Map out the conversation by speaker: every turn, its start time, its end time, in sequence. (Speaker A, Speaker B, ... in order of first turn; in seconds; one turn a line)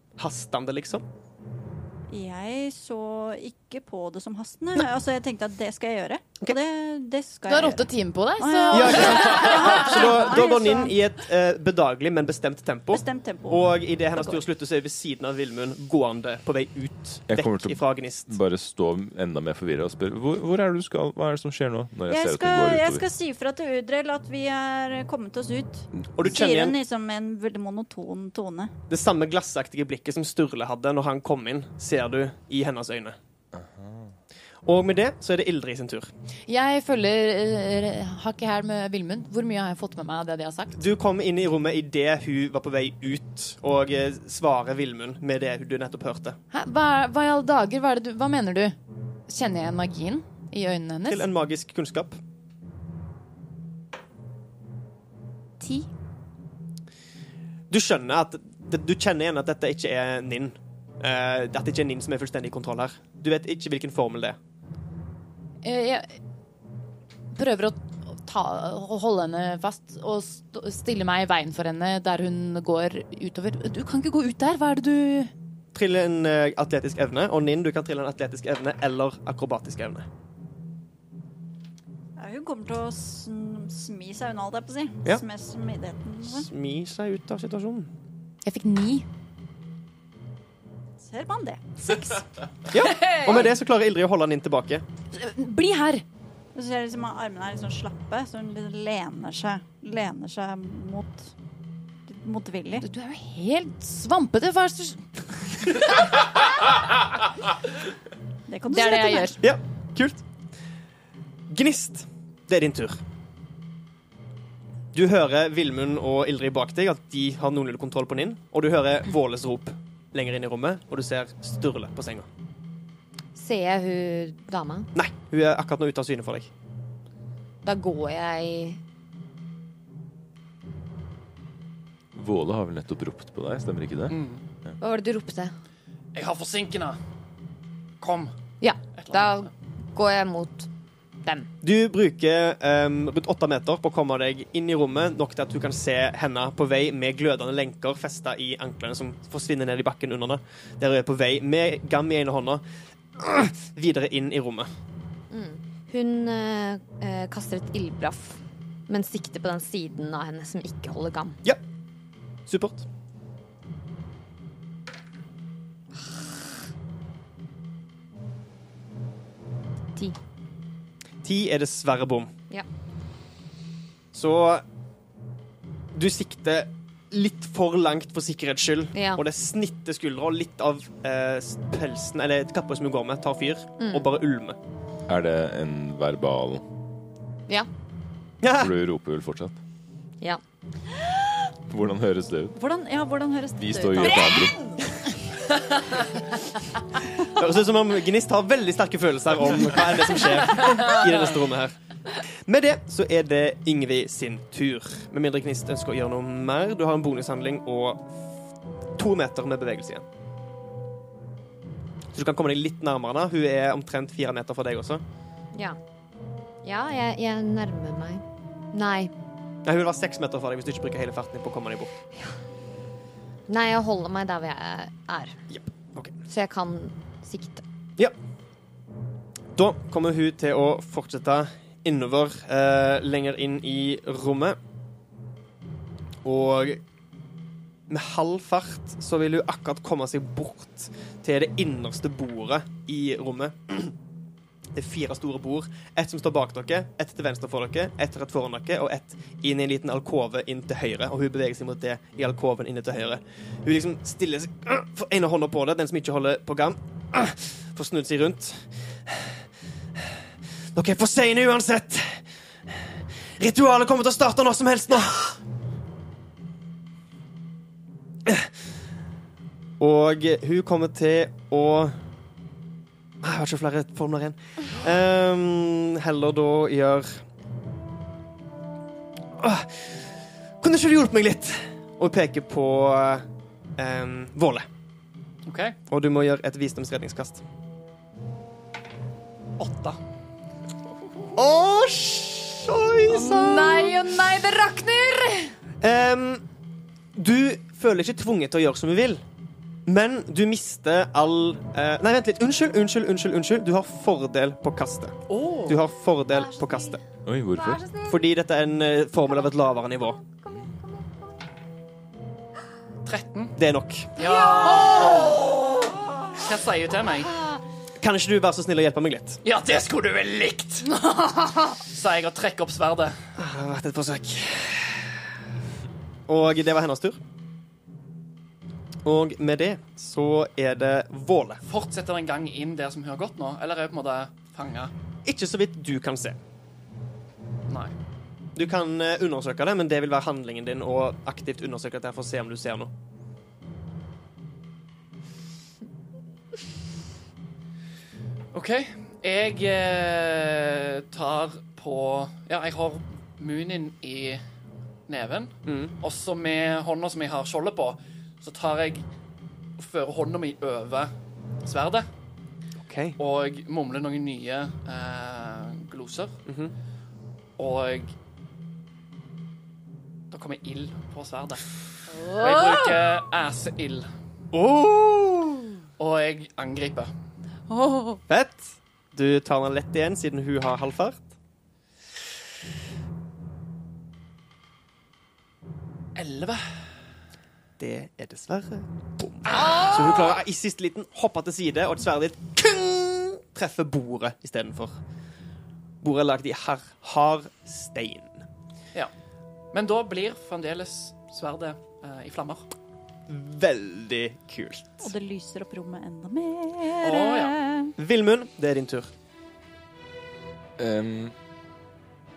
Speaker A: 0.2-1.0
Speaker B: 2.1-11.0
Speaker C: 7.5-9.9
Speaker A: 8.7-18.4
Speaker B: 12.9-14.4
Speaker D: 17.3-23.0
Speaker B: 22.1-28.7
Speaker A: 26.1-26.8
Speaker A: 28.9-33.2
Speaker D: 33.5-34.1
Speaker A: 34.6-36.1
Speaker C: 36.5-40.8
Speaker A: 40.8-46.4
Speaker C: 46.5-48.8
Speaker C: 49.3-51.3
Speaker A: 51.1-52.1
Speaker C: 55.6-55.9
Speaker A: 57.7-64.4
Speaker C: 65.6-66.2
Speaker C: 67.3-75.3
Speaker A: 75.7-80.1
Speaker B: 82.2-86.5
Speaker A: 86.3-87.9
Speaker C: 88.4-89.1
Speaker B: 91.0-92.4
Speaker A: 92.7-94.8
Speaker C: 95.1-96.0
Speaker B: 96.5-101.3
Speaker B: 102.1-102.8
Speaker C: 102.8-105.8
Speaker B: 108.5-109.4
Speaker C: 108.7-109.4
Speaker A: 109.4-110.2
Speaker A: 111.5-113.0
Speaker A: 114.9-122.3
Speaker E: 123.3-124.9
Speaker A: 125.0-126.5
Speaker E: 127.6-128.8
Speaker D: 132.1-134.8
Speaker F: 134.1-134.4
Speaker E: 134.8-135.5
Speaker F: 136.1-137.0
Speaker F: 138.0-138.3
Speaker E: 138.6-140.7
Speaker F: 139.0-139.5
Speaker A: 141.6-152.6
Speaker A: 153.2-154.7
Speaker E: 155.3-161.4
Speaker A: 162.5-162.9
Speaker A: 171.2-172.3
Speaker A: 174.1-174.6
Speaker A: 175.9-184.6
Speaker E: 178.9-179.2
Speaker E: 183.8-184.1
Speaker D: 185.1-186.6
Speaker A: 188.4-188.7
Speaker D: 188.6-189.6
Speaker D: 191.7-192.6
Speaker B: 192.6-194.5
Speaker D: 193.6-194.6
Speaker A: 197.3-201.8
Speaker A: 202.5-208.0
Speaker A: 209.0-210.1
Speaker A: 212.1-215.0
Speaker E: 215.5-215.8
Speaker E: 216.6-219.1
Speaker A: 219.6-221.9
Speaker E: 223.5-225.4
Speaker A: 225.5-226.1
Speaker E: 226.3-227.6
Speaker A: 229.6-234.6
Speaker A: 236.2-236.8
Speaker A: 237.9-243.9
Speaker A: 244.7-259.3
Speaker A: 260.7-262.8
Speaker A: 263.4-265.4
Speaker A: 269.8-271.9
Speaker A: 273.2-277.2
Speaker A: 279.4-280.0
Speaker A: 280.6-283.2
Speaker A: 283.8-284.7
Speaker F: 285.4-285.8
Speaker A: 285.9-287.4
Speaker F: 289.6-290.0
Speaker A: 291.4-294.0
Speaker C: 293.1-295.5
Speaker A: 295.8-296.4
Speaker A: 297.2-299.2
Speaker A: 299.9-307.0
Speaker F: 305.3-305.8
Speaker E: 306.3-307.0
Speaker D: 307.2-307.9
Speaker E: 307.6-308.2
Speaker A: 308.1-310.2
Speaker E: 310.2-311.1
Speaker F: 313.1-313.5
Speaker A: 313.6-314.1
Speaker F: 314.2-315.7
Speaker E: 314.2-315.4
Speaker F: 316.4-317.4
Speaker A: 318.0-319.4
Speaker F: 319.4-323.2
Speaker A: 323.4-325.2
Speaker A: 326.3-327.2
Speaker A: 329.1-331.6
Speaker F: 331.7-334.9
Speaker A: 335.2-336.4
Speaker F: 337.7-337.9
Speaker A: 338.6-342.9
Speaker F: 348.5-354.4
Speaker F: 355.1-359.1
Speaker A: 355.7-355.9
Speaker F: 359.8-361.1
Speaker F: 361.6-362.1
Speaker A: 362.8-363.2
Speaker F: 363.2-366.4
Speaker A: 366.5-366.7
Speaker F: 367.6-368.1
Speaker F: 370.3-371.7
Speaker C: 372.1-372.9
Speaker F: 372.3-374.1
Speaker A: 374.5-375.7
Speaker F: 376.0-377.1
Speaker C: 377.7-378.2
Speaker A: 378.3-381.2
Speaker F: 386.1-386.6
Speaker A: 387.8-394.9
Speaker F: 389.5-390.3
Speaker A: 396.0-398.4
Speaker F: 399.7-402.7
Speaker A: 403.3-405.1
Speaker B: 405.0-407.9
Speaker F: 407.0-407.5
Speaker A: 408.0-409.1
Speaker D: 410.8-411.4